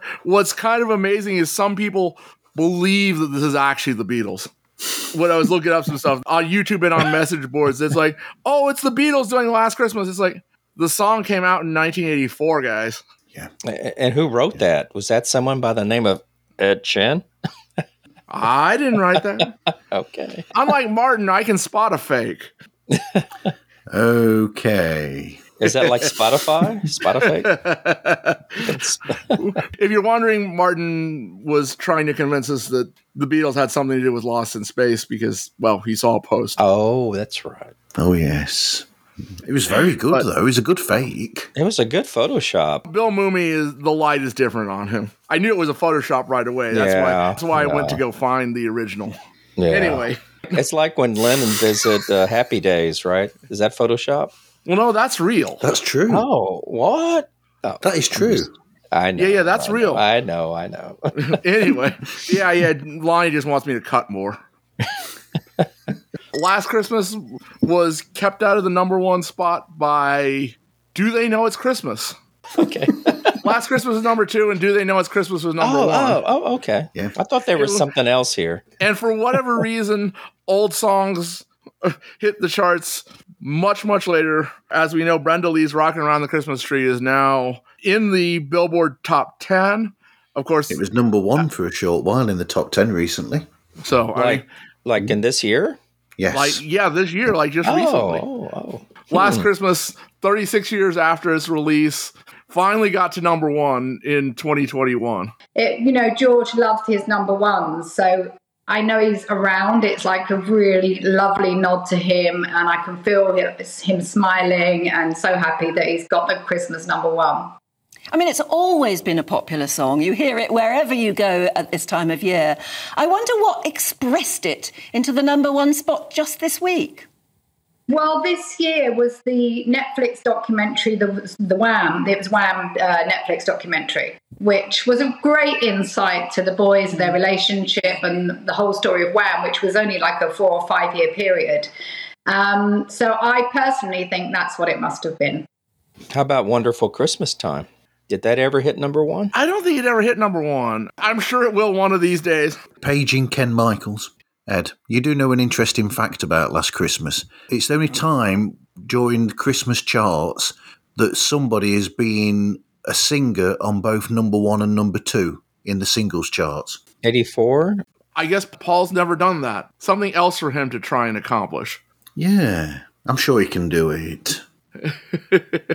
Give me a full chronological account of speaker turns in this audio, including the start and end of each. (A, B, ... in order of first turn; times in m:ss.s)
0:00.2-0:04.5 A
0:05.1-0:13.0 A
0:13.6-0:17.2 B
0:18.3-0:19.5 A
0:19.9-0:20.5 B
0:20.5-0:22.5 A
0:22.9-0:23.2 B
0:23.9-0:25.4 C
0:25.6-0:27.6 B
0:27.4-0:28.7 A
0:28.6-0:29.0 B
0:29.3-0:36.6 A
0:36.6-0:37.7 B
0:38.0-0:41.5 C
0:41.5-0:42.8 B
0:42.9-0:49.2 A
0:46.7-0:48.0 B
0:49.6-0:54.3 B
0:49.7-0:50.6 A
0:54.6-0:55.6 A
0:55.6-0:56.2 C
0:56.1-1:01.4 B
0:57.8-0:58.5 C
0:59.2-1:00.0 A
1:01.2-1:04.4 A
1:06.3-1:12.1 A
1:12.6-1:13.4 B
1:13.4-1:16.2 A
1:15.6-1:18.6 B
1:17.6-1:17.8 A
1:18.8-1:30.8 A
1:30.7-1:33.5 C
1:33.8-1:34.4 A
1:34.1-1:35.8 B
1:36.2-1:36.6 C
1:36.3-1:38.2 A
1:37.6-1:39.4 B
1:39.1-1:45.3 A
1:45.6-1:57.5 D
1:58.1-2:07.1 E
2:07.9-2:21.7 D
2:22.3-2:25.4 D
2:26.1-2:29.3 B
2:29.3-2:32.6 A
2:32.8-2:46.8 C
2:47.0-2:47.8 B
2:48.2-2:51.8 A
2:52.2-2:54.4 C
2:54.8-2:55.6 A